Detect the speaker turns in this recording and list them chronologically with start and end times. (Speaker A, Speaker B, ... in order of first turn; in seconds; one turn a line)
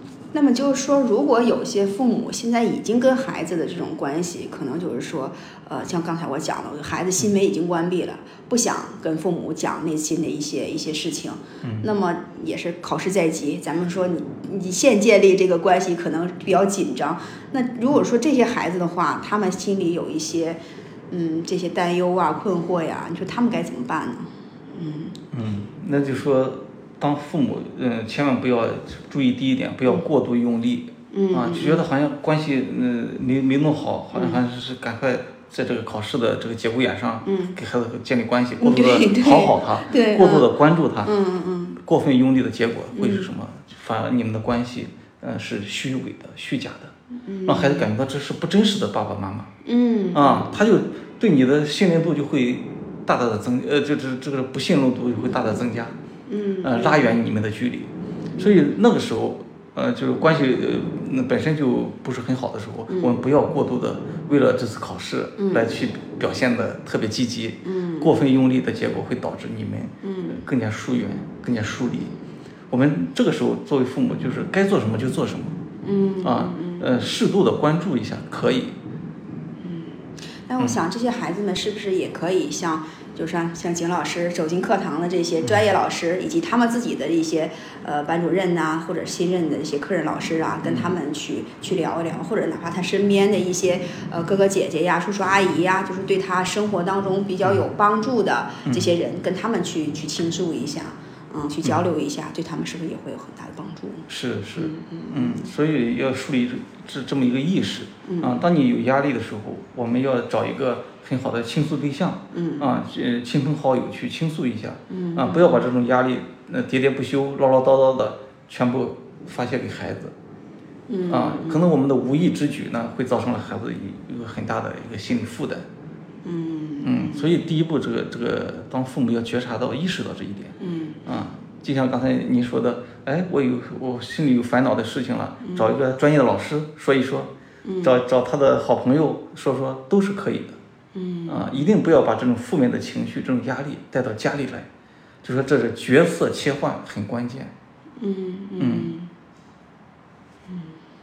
Speaker A: 0.3-25.1
Speaker B: 11.6-11.9
Speaker B: 25.3-41.1
Speaker A: 31.1-31.8
Speaker A: 34.1-34.4
Speaker A: 37.2-37.5
Speaker A: 38.6-40.5
Speaker A: 41.0-41.8
Speaker B: 41.8-46.9
Speaker A: 42.9-43.3
Speaker A: 47.2-47.9
Speaker B: 47.5-49.5
Speaker A: 49.6-50.5
Speaker B: 50.1-55.9
Speaker A: 56.3-57.1
Speaker B: 56.6-72.1
Speaker A: 58.4-58.6
Speaker A: 62.9-63.2
Speaker A: 65.4-65.7
Speaker A: 67.6-68.1
Speaker A: 70.0-70.4
Speaker B: 72.7-75.6
Speaker A: 75.8-77.0
Speaker B: 76.2-78.8
Speaker A: 79.6-104.0
Speaker B: 90.6-90.9
Speaker B: 98.6-98.9
Speaker B: 104.1-120.1
Speaker A: 104.6-105.5
Speaker A: 108.1-108.4
Speaker A: 112.3-112.7
Speaker A: 114.9-115.6
Speaker A: 120.9-121.7
Speaker B: 121.1-125.7
Speaker A: 126.2-127.3
Speaker B: 126.8-137.3
Speaker A: 130.6-131.0
Speaker A: 135.4-135.7
Speaker A: 137.6-138.0
Speaker B: 137.8-140.6
Speaker A: 140.9-141.6
Speaker B: 141.3-144.7
Speaker B: 145.2-147.5
Speaker A: 148.0-149.1
Speaker B: 148.6-148.9
Speaker A: 150.5-150.7